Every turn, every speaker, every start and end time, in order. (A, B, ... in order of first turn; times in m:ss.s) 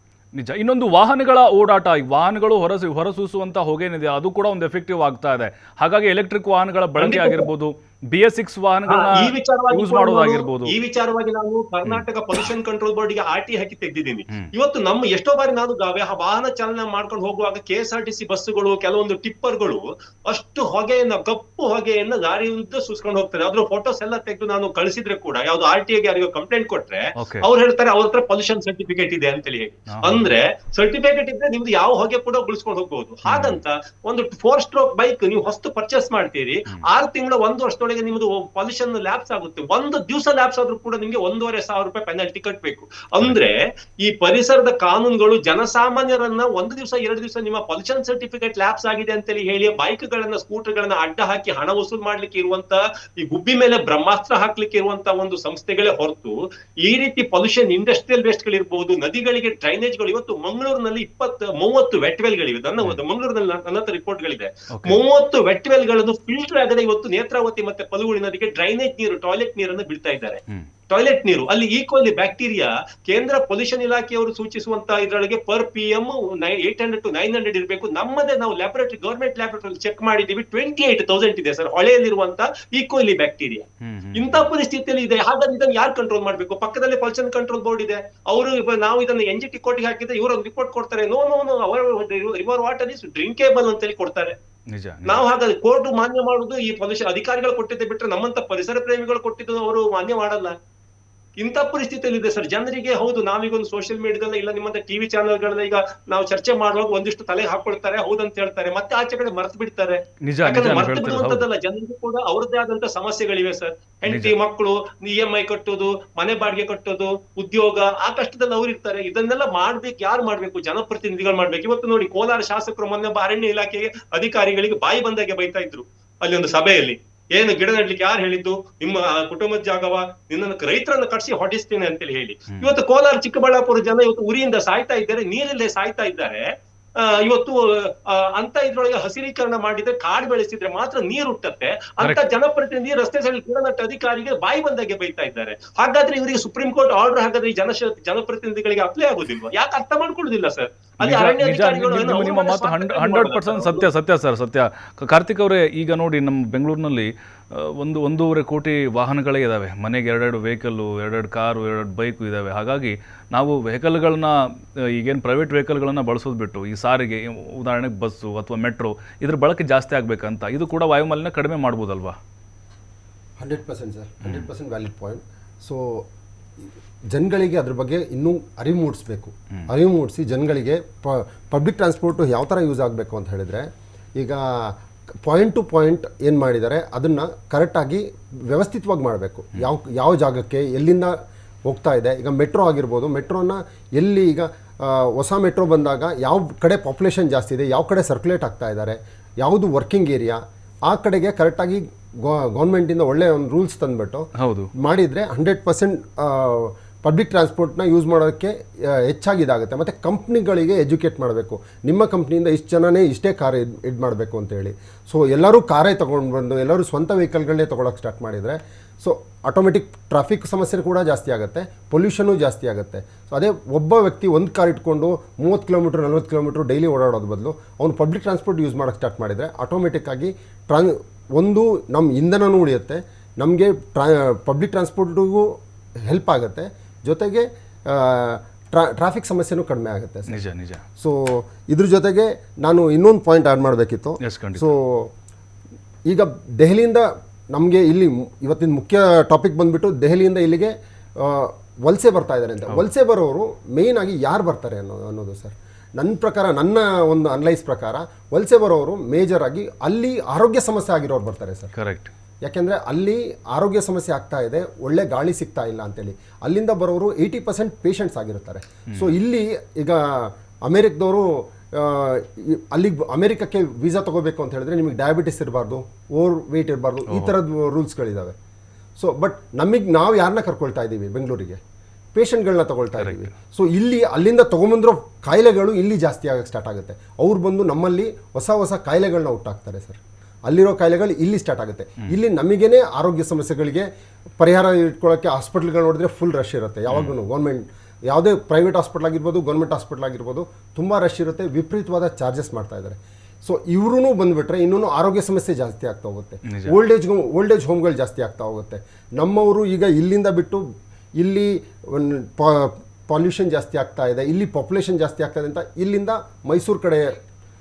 0:00.4-0:10.8 A
0:07.0-0:07.5 B
0:08.9-1:34.4 B
0:11.8-0:12.4 A
0:27.2-0:27.4 A
0:29.9-0:30.4 A
0:33.2-0:33.6 A
1:04.7-1:05.0 A
1:23.8-1:24.5 A
1:34.7-1:35.2 A
1:35.0-1:40.5 B
1:41.4-2:16.5 B
1:50.2-1:51.4 A
1:54.1-1:54.3 A
2:17.0-2:33.9 B
2:22.0-2:22.3 A
2:31.0-2:44.3 A
2:44.9-2:52.2 A
2:53.4-2:56.0 C
2:54.2-2:54.5 A
2:57.1-3:11.1 C
3:11.7-3:55.5 C
3:24.4-3:24.7 A
3:56.1-4:00.4 C
4:00.3-4:00.8 A
4:01.0-4:05.1 C
4:04.2-4:04.7 A
4:06.1-4:21.7 C
4:21.8-4:22.1 A
4:22.4-4:38.4 C
4:37.1-4:37.3 A
4:39.0-4:41.6 C
4:42.1-4:53.9 C
4:43.0-4:43.3 A
4:54.4-5:10.6 C
4:56.9-4:57.1 A
5:06.5-5:06.7 A
5:11.2-5:17.2 C